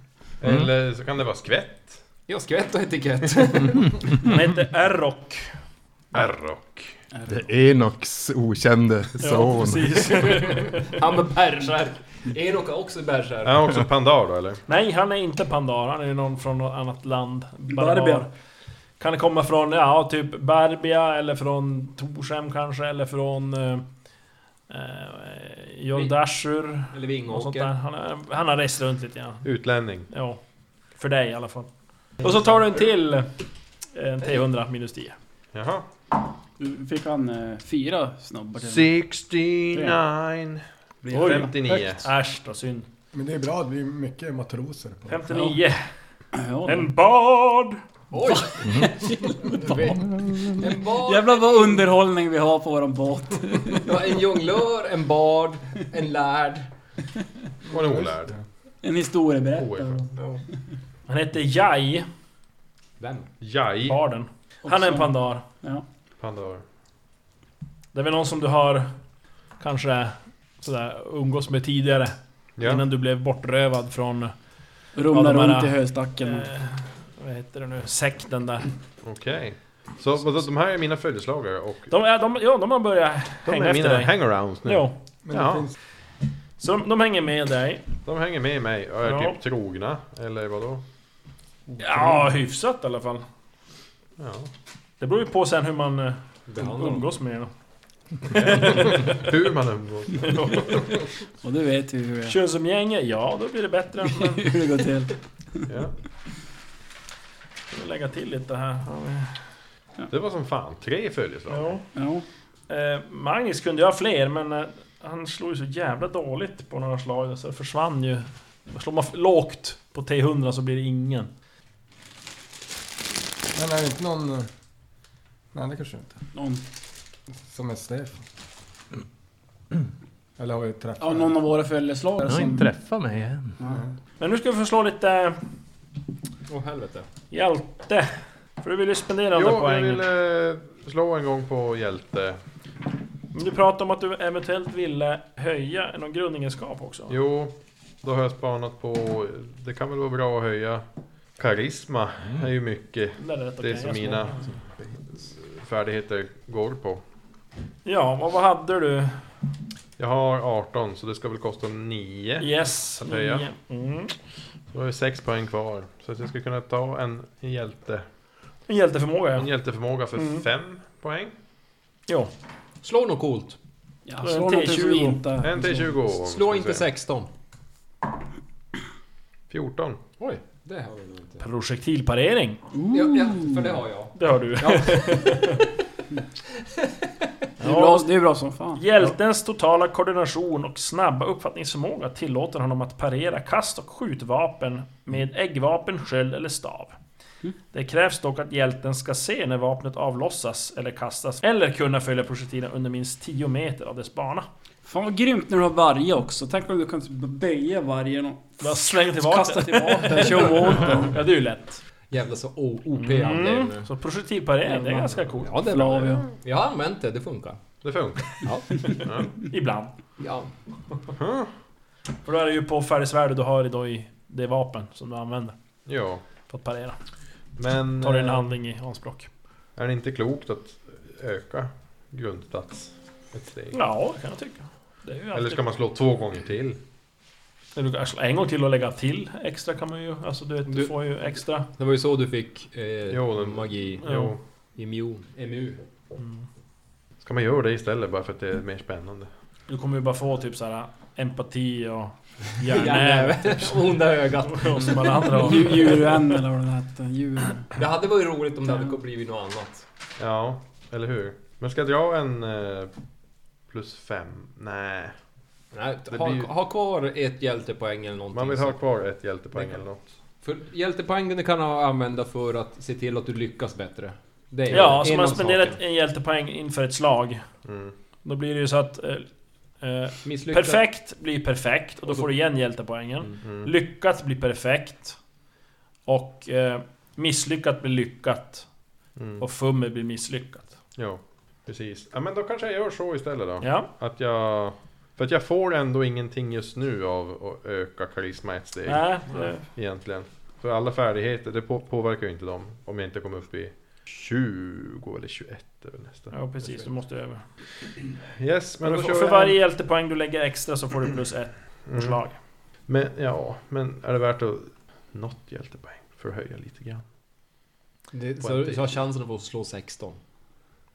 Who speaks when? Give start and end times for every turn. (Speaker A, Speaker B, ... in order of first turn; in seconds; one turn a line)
Speaker A: 0.4-2.0
Speaker B: 0.5-0.7
Speaker C: 2.3-4.0
Speaker D: 4.2-5.5
Speaker A: 6.1-7.0
Speaker B: 7.3-10.4
Speaker D: 9.2-11.0
Speaker C: 10.3-13.8
Speaker A: 13.4-14.6
Speaker D: 14.7-18.3
Speaker E: 17.7-18.3
Speaker D: 19.0-23.8
Speaker D: 24.7-29.4
Speaker C: 26.9-27.7
Speaker A: 29.4-30.1
Speaker D: 30.1-30.4
Speaker D: 30.9-33.3
Speaker D: 33.9-35.1
Speaker A: 35.5-35.9
Speaker E: 36.6-38.9
Speaker A: 38.6-42.0
Speaker D: 41.1-42.9
Speaker E: 41.2-41.5
Speaker F: 43.1-45.3
Speaker D: 45.1-45.8
Speaker E: 45.3-45.6
Speaker E: 46.3-46.9
Speaker D: 46.6-47.8
Speaker C: 48.1-50.0
Speaker E: 48.2-49.5
Speaker B: 48.6-48.9
Speaker B: 49.8-50.7
Speaker C: 50.6-51.9
Speaker E: 50.9-53.9
Speaker C: 53.8-56.7
Speaker A: 57.7-58.4
Speaker F: 57.7-58.4
Speaker E: 58.8-60.1
Speaker A: 59.5-60.1
Speaker D: 61.1-62.0
Speaker C: 63.0-63.3
Speaker A: 63.4-64.0
Speaker D: 63.9-65.5
Speaker E: 64.6-65.8
Speaker A: 66.2-66.6
Speaker D: 67.9-68.9
Speaker D: 69.6-74.3
Speaker A: 72.6-72.8
Speaker E: 75.0-76.5
Speaker D: 75.1-78.7
Speaker A: 79.0-81.9
Speaker D: 81.9-84.1
Speaker A: 83.4-85.7
Speaker D: 84.6-85.0
Speaker F: 85.2-85.7
Speaker D: 86.6-87.8
Speaker A: 88.0-90.8
Speaker D: 89.0-89.4
Speaker E: 91.8-92.2
Speaker D: 91.8-93.2
Speaker A: 94.2-94.5
Speaker D: 95.0-97.5
Speaker C: 96.5-97.0
Speaker D: 98.2-99.3
Speaker A: 98.3-101.1
Speaker E: 101.4-102.3
Speaker D: 102.2-104.5
Speaker E: 104.2-105.2
Speaker A: 105.7-105.9
Speaker D: 107.7-109.4
Speaker A: 110.1-111.8
Speaker D: 111.5-111.8
Speaker E: 111.9-112.2
Speaker D: 112.7-121.3
Speaker F: 123.5-124.5
Speaker F: 125.5-126.2
Speaker E: 126.3-126.6
Speaker F: 127.4-128.2
Speaker F: 130.4-131.4
Speaker E: 131.0-132.7
Speaker B: 132.2-133.6
Speaker D: 134.2-135.4
Speaker C: 136.5-137.1
Speaker D: 137.3-140.0
Speaker A: 139.3-142.4
Speaker D: 143.3-147.2
Speaker A: 147.1-150.8
Speaker A: 151.4-154.5
Speaker D: 153.2-154.4
Speaker A: 155.3-157.0
Speaker D: 157.8-159.3
Speaker A: 160.0-163.5
Speaker D: 162.4-164.1
Speaker A: 164.7-168.0
Speaker D: 168.7-169.5
Speaker A: 169.4-171.3
Speaker D: 170.2-170.4
Speaker C: 172.8-173.6
Speaker E: 174.1-175.9
Speaker D: 174.2-175.2
Speaker A: 175.4-176.8
Speaker C: 176.1-177.3
Speaker A: 179.5-180.0
Speaker C: 180.2-181.4
Speaker D: 181.4-182.6
Speaker E: 182.7-183.8
Speaker C: 182.9-185.6
Speaker D: 184.2-185.6
Speaker C: 186.8-187.0
Speaker D: 187.6-188.1
Speaker E: 187.6-188.8
Speaker D: 188.7-196.9
Speaker D: 197.7-204.5
Speaker E: 204.8-211.2
Speaker D: 208.6-211.8
Speaker C: 212.1-213.9
Speaker D: 213.0-215.7
Speaker E: 214.6-216.2
Speaker C: 215.4-217.6
Speaker A: 217.8-218.5
Speaker C: 218.4-218.9
Speaker D: 218.9-219.9
Speaker A: 219.0-219.3
Speaker C: 220.2-220.5
Speaker A: 221.1-221.5
Speaker D: 222.2-225.5
Speaker A: 225.8-226.2
Speaker D: 226.5-227.0
Speaker A: 227.6-228.6
Speaker D: 228.0-229.3
Speaker A: 229.8-233.8
Speaker D: 233.7-235.6
Speaker A: 235.3-236.8
Speaker D: 237.8-241.7
Speaker C: 240.7-240.9
Speaker C: 241.7-244.1
Speaker A: 243.1-244.4
Speaker D: 244.0-244.3
Speaker C: 244.8-245.8
Speaker D: 246.2-246.4
Speaker A: 247.2-249.3
Speaker D: 249.7-256.1
Speaker C: 252.7-256.2
Speaker E: 255.3-257.7
Speaker C: 257.7-259.9
Speaker A: 260.2-262.9
Speaker A: 263.7-265.1
Speaker C: 265.7-268.8
Speaker A: 266.1-266.5
Speaker A: 268.3-270.1
Speaker C: 269.5-269.8
Speaker C: 270.4-275.8
Speaker A: 274.7-275.1
Speaker D: 274.7-277.4
Speaker A: 277.6-277.9
Speaker D: 278.2-279.3
Speaker D: 279.8-285.2
Speaker C: 280.2-280.8
Speaker A: 283.4-283.7
Speaker D: 286.1-288.7
Speaker A: 289.1-289.4
Speaker D: 289.4-290.7
Speaker A: 291.0-306.9
Speaker D: 293.6-293.9
Speaker D: 298.9-299.6
Speaker D: 306.3-307.4
Speaker A: 308.4-309.6
Speaker D: 308.8-312.4
Speaker A: 311.9-312.2
Speaker A: 312.9-317.0
Speaker C: 318.1-320.2
Speaker A: 318.4-318.9